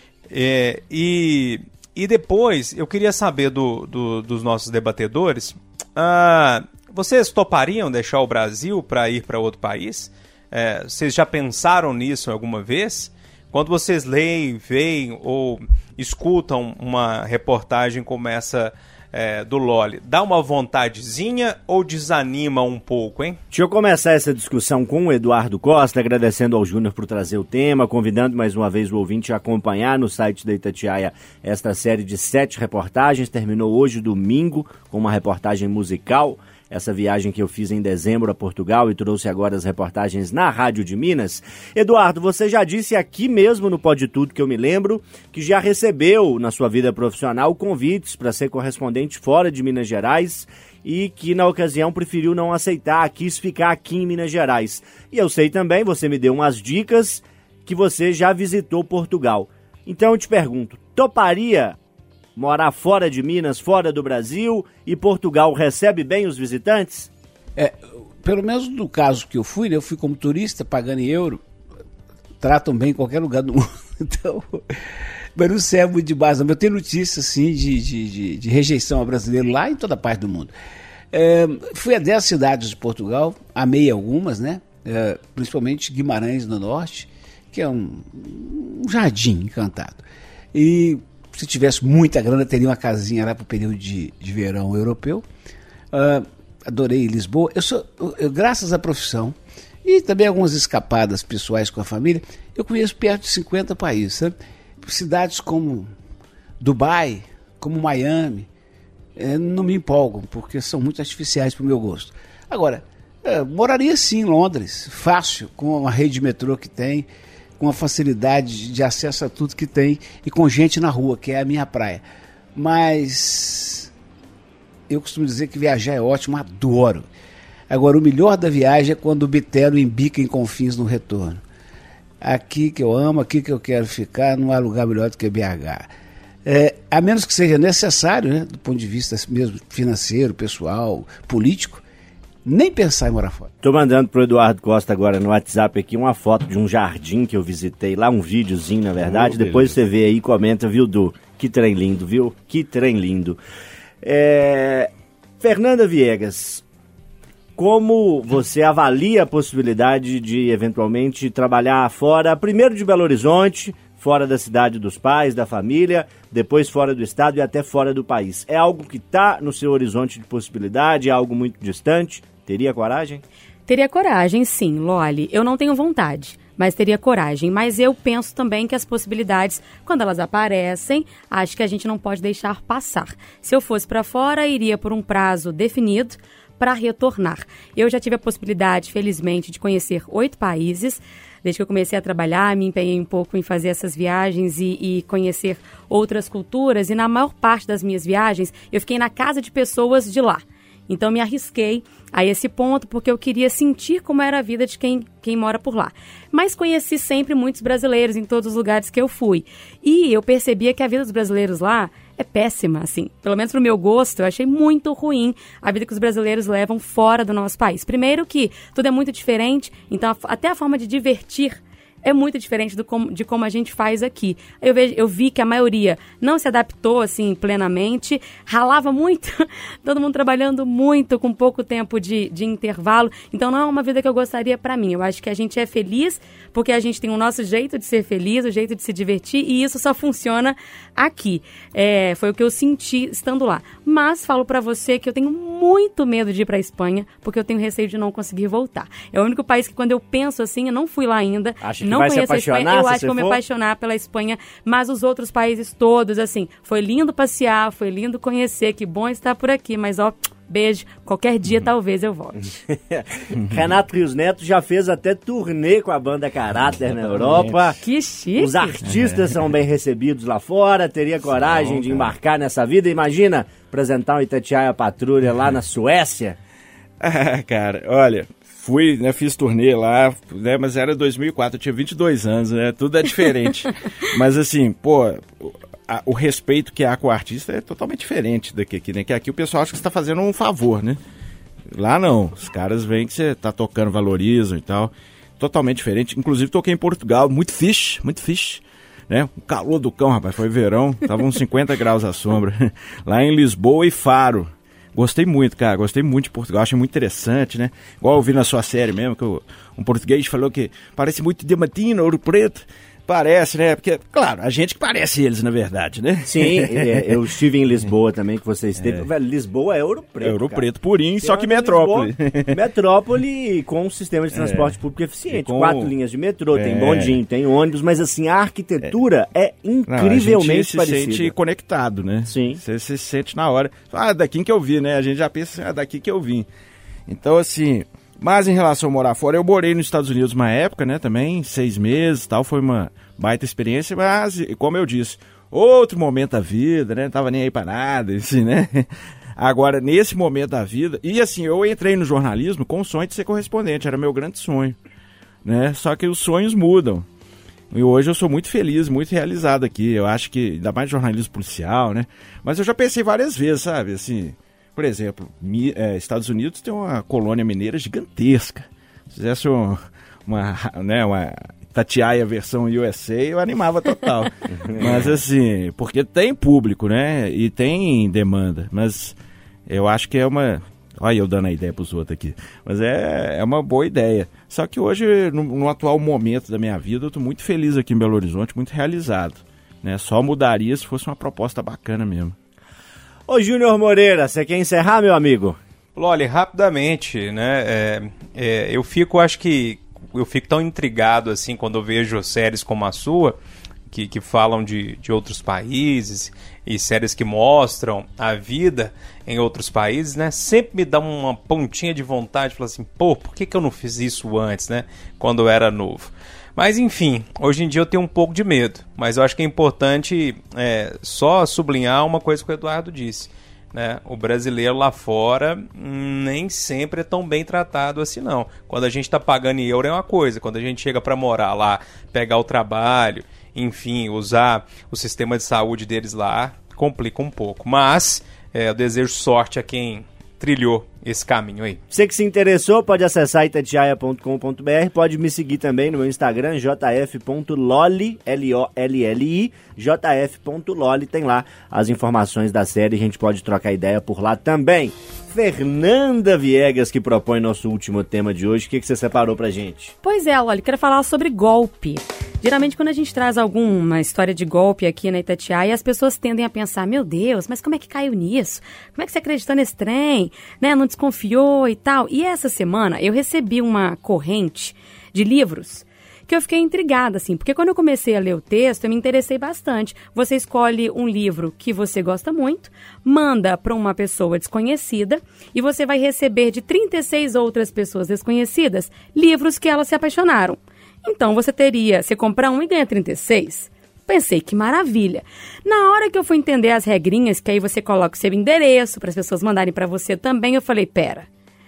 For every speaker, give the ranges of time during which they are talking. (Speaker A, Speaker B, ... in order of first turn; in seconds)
Speaker A: 0.3-23.4, 395.9-403.4, 403.9-441.8
Speaker B: 23.5-61.8, 62.4-67.1, 143.6-153.4, 154.0-156.6, 157.6-173.2, 251.6-253.4, 262.4-267.8, 268.4-276.4, 316.2-320.6, 321.2-331.3, 332.2-332.6, 374.5-375.2, 393.3-395.6, 441.9-459.9
Speaker C: 67.5-71.4, 72.4-80.5, 81.1-95.2, 95.9-105.9, 106.6-108.5, 109.2-117.1, 117.6-122.0, 122.5-123.9, 124.9-127.1, 127.7-131.4, 132.2-135.9, 136.4-141.8, 142.4-143.5
Speaker D: 149.0-149.8, 267.1-267.6, 268.8-269.3, 271.4-272.1, 277.0-291.0, 291.7-317.1, 318.8-319.1, 320.2-322.6, 324.3-324.8, 325.3-325.9, 326.5-327.2, 329.9-336.5, 337.1-354.8, 355.4-357.1, 357.7-379.1, 379.7-392.3
Speaker E: 173.7-262.4, 267.8-268.8, 460.0-501.3